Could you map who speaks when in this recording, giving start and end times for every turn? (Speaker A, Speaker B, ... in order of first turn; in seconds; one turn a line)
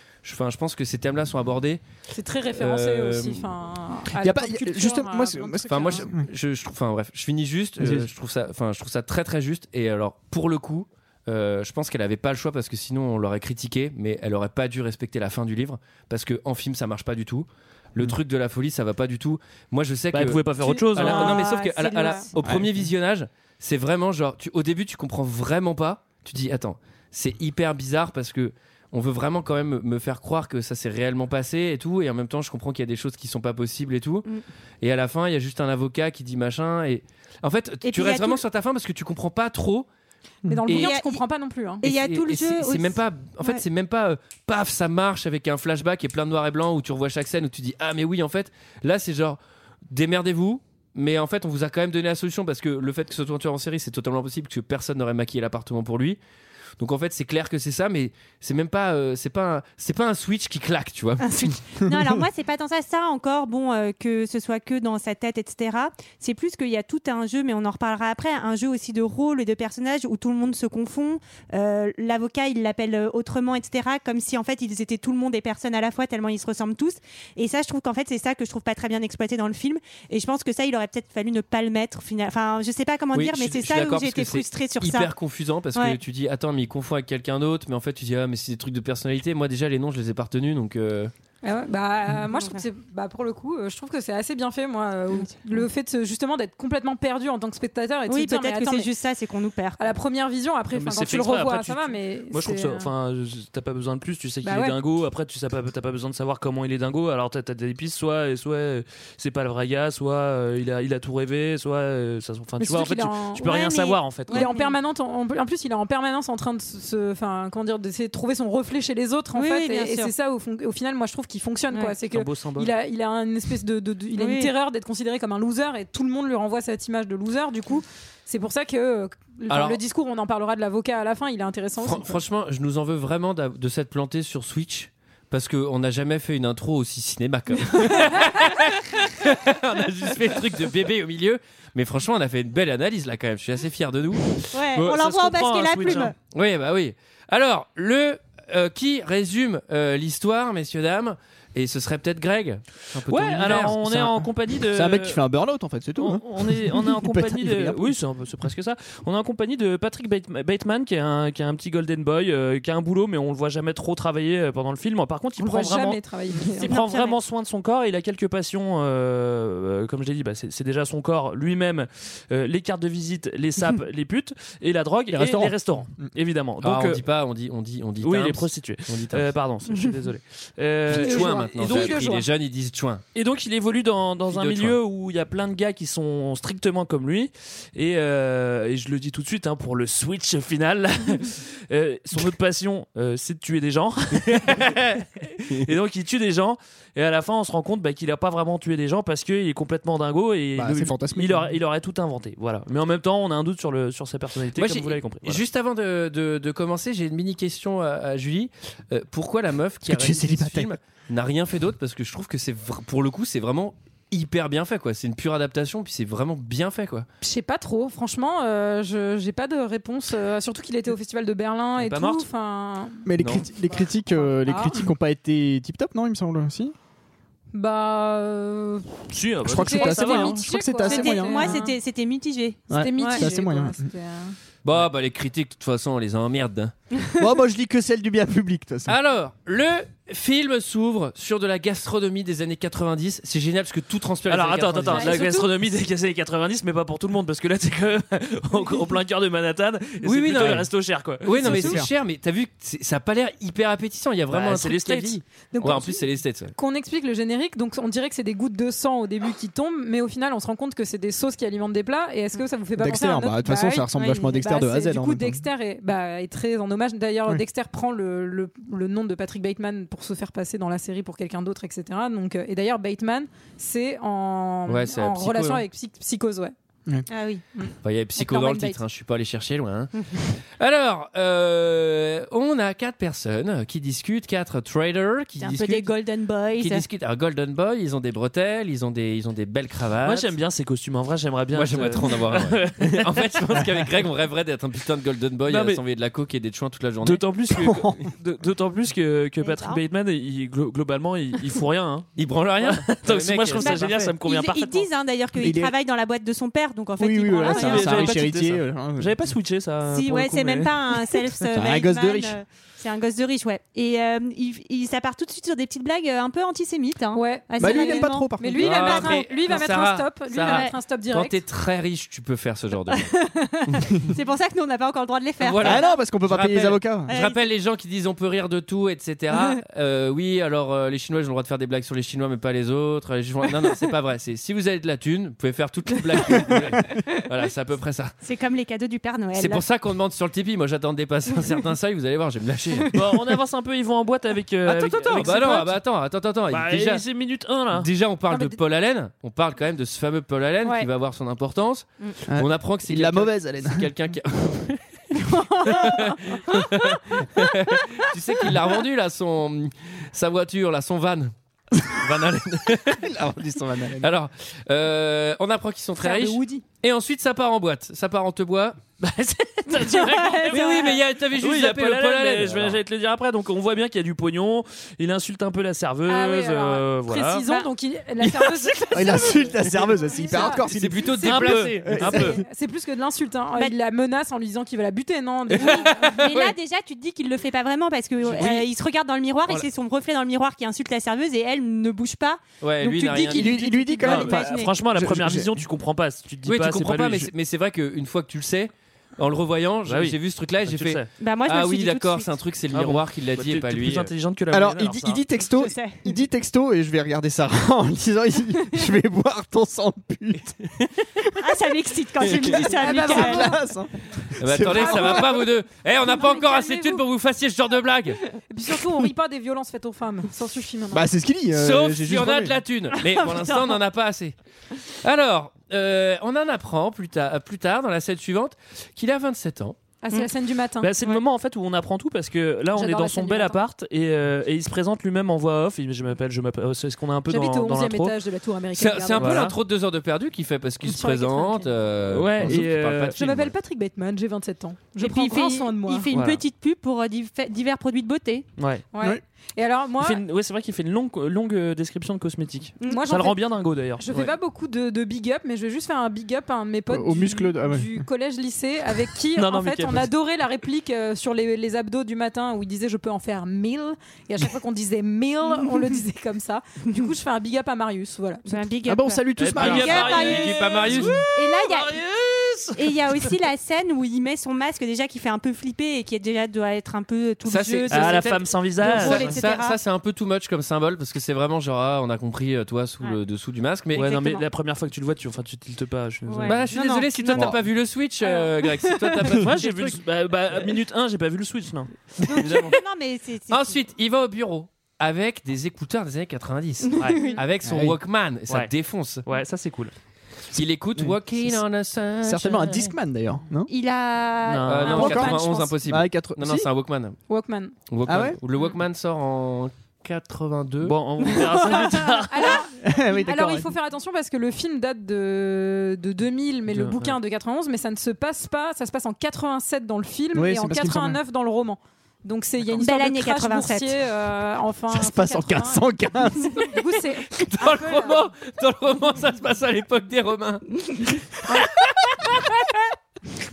Speaker A: 0.2-1.8
Speaker B: 2.1-6.1
Speaker A: 2.5-3.5
Speaker C: 4.2-6.3
Speaker A: 5.7-34.3
Speaker C: 7.8-8.1
Speaker D: 20.1-21.5
Speaker E: 21.0-22.3
Speaker C: 22.4-22.8
Speaker A: 34.8-39.9
Speaker E: 37.8-38.4
Speaker B: 40.5-41.8
Speaker A: 40.7-41.0
Speaker E: 40.7-41.2
Speaker E: 41.8-43.6
Speaker A: 41.8-56.2
Speaker A: 56.8-61.5
Speaker E: 61.2-85.1
Speaker A: 83.1-91.1
Speaker B: 91.4-98.9
Speaker E: 92.3-92.6
Speaker E: 95.1-95.6
Speaker E: 98.1-99.8
Speaker B: 99.8-102.9
Speaker D: 100.7-114.5
Speaker B: 104.4-104.8
Speaker B: 112.6-113.5
Speaker E: 113.4-114.8
Speaker B: 114.3-132.2
Speaker E: 119.3-120.1
Speaker D: 122.1-122.7
Speaker E: 124.2-124.5
Speaker A: 129.5-129.8
Speaker A: 131.8-144.4
Speaker E: 144.5-146.2
Speaker D: 144.8-146.1
Speaker A: 146.3-154.1
Speaker D: 153.1-155.2
Speaker C: 153.7-157.9
Speaker D: 156.0-177.0
Speaker B: 165.4-166.7
Speaker E: 166.5-167.2
Speaker C: 175.1-176.1
Speaker A: 176.6-179.3
Speaker D: 178.0-182.2
Speaker A: 180.9-183.0
Speaker B: 181.0-182.2
Speaker D: 183.2-205.4
Speaker A: 184.3-184.8
Speaker C: 200.6-201.5
Speaker A: 204.6-217.1
Speaker C: 209.8-210.7
Speaker B: 217.2-224.9
Speaker D: 221.8-222.3
Speaker C: 223.1-226.8
Speaker A: 223.2-223.5
Speaker B: 227.5-231.8
Speaker D: 229.1-230.4
Speaker C: 229.4-231.6
Speaker E: 230.9-233.2
Speaker C: 232.7-233.8
Speaker B: 232.7-234.4
Speaker A: 234.6-236.7
Speaker C: 237.2-238.9
Speaker A: 238.9-245.3
Speaker D: 244.3-251.8
Speaker B: 244.9-245.5
Speaker A: 250.0-250.7
Speaker A: 251.2-256.5
Speaker B: 251.4-251.8
Speaker C: 251.4-251.9
Speaker D: 254.3-255.2
Speaker B: 255.5-256.0
Speaker B: 256.6-276.5
Speaker C: 262.8-265.4
Speaker A: 274.7-275.6
Speaker E: 277.1-277.4
Speaker B: 277.6-278.8
Speaker A: 277.8-279.9
Speaker A: 280.6-285.9
Speaker E: 285.4-286.8
Speaker A: 286.6-290.3
Speaker D: 290.1-293.3
Speaker A: 291.6-297.3
Speaker D: 295.5-295.8
Speaker D: 297.0-304.9
Speaker C: 297.5-298.0
Speaker E: 299.4-299.8
Speaker A: 302.2-304.1
Speaker E: 303.6-308.2
Speaker C: 305.4-305.7
Speaker C: 307.0-309.1
Speaker D: 307.4-311.5
Speaker E: 309.9-319.2
Speaker C: 311.5-312.4
Speaker B: 317.1-321.4
Speaker C: 317.6-318.8
Speaker A: 318.6-323.1
Speaker E: 320.4-320.8
Speaker E: 323.0-326.0
Speaker A: 325.4-338.1
Speaker C: 325.6-327.1
Speaker E: 327.1-327.4
Speaker E: 338.2-339.6
Speaker A: 339.4-342.9
Speaker D: 342.9-345.8
Speaker A: 344.7-347.1
Speaker D: 346.5-347.9
Speaker A: 347.7-354.9
Speaker C: 352.3-353.9
Speaker E: 355.2-356.2
Speaker A: 355.6-363.1
Speaker C: 362.9-364.1
Speaker A: 364.0-368.8
Speaker E: 366.0-366.6
Speaker B: 366.1-366.6
Speaker D: 369.0-377.5
Speaker E: 369.8-371.0
Speaker A: 370.5-372.8
Speaker B: 376.1-386.2
Speaker C: 378.9-382.4
Speaker A: 380.7-382.1
Speaker D: 381.2-382.4
Speaker A: 385.5-386.5
Speaker E: 385.6-394.7
Speaker A: 388.2-388.7
Speaker A: 392.6-394.1
Speaker C: 393.3-395.6
Speaker D: 394.1-397.3
Speaker A: 396.5-404.1
Speaker D: 399.9-401.1
Speaker E: 401.2-402.3
Speaker D: 402.7-405.2
Speaker C: 404.5-411.3
Speaker E: 405.5-406.1
Speaker E: 411.4-413.5
Speaker A: 412.2-412.6
Speaker C: 412.3-415.3
Speaker B: 412.7-413.6
Speaker A: 414.4-418.2
Speaker B: 414.7-415.5
Speaker B: 416.1-417.0
Speaker B: 418.5-421.1
Speaker C: 420.9-422.6
Speaker A: 421.5-424.4
Speaker E: 423.0-423.8
Speaker A: 425.0-429.8
Speaker B: 430.0-430.9
Speaker D: 430.8-438.2
Speaker B: 432.8-433.6
Speaker B: 437.3-439.4
Speaker A: 438.8-443.5
Speaker D: 439.2-439.6
Speaker B: 440.8-441.7
Speaker D: 442.1-443.2
Speaker B: 443.2-446.1
Speaker E: 445.0-448.5
Speaker D: 446.1-446.4
Speaker D: 448.6-448.8
Speaker B: 448.9-450.2
Speaker D: 450.0-454.2
Speaker B: 452.9-453.4
Speaker B: 454.0-468.6
Speaker C: 456.9-458.0
Speaker D: 459.4-460.1
Speaker E: 465.6-465.9
Speaker E: 468.5-472.0
Speaker C: 468.9-470.2
Speaker D: 469.4-473.3
Speaker A: 469.6-471.2
Speaker E: 472.8-479.8
Speaker A: 477.4-484.1
Speaker D: 477.9-479.4
Speaker E: 483.9-484.4
Speaker D: 483.9-486.6
Speaker E: 486.3-487.6
Speaker A: 486.4-490.0
Speaker E: 488.2-488.9
Speaker D: 489.4-492.8
Speaker E: 492.3-493.8
Speaker A: 493.5-499.2
Speaker E: 497.0-497.4
Speaker D: 497.0-497.3
Speaker C: 497.6-498.0
Speaker D: 499.3-499.9
Speaker C: 500.6-501.2
Speaker A: 500.6-502.9
Speaker C: 502.2-503.7
Speaker E: 503.7-505.6
Speaker D: 504.4-505.0
Speaker A: 504.7-507.2
Speaker C: 504.9-506.7
Speaker B: 505.0-505.6
Speaker B: 507.3-507.7
Speaker A: 507.9-510.9
Speaker C: 508.1-508.4
Speaker D: 510.8-512.6
Speaker B: 512.3-528.2
Speaker C: 512.8-513.7
Speaker D: 516.7-517.2
Speaker C: 520.3-521.2
Speaker E: 522.8-524.0
Speaker C: 524.9-526.7
Speaker A: 527.3-532.9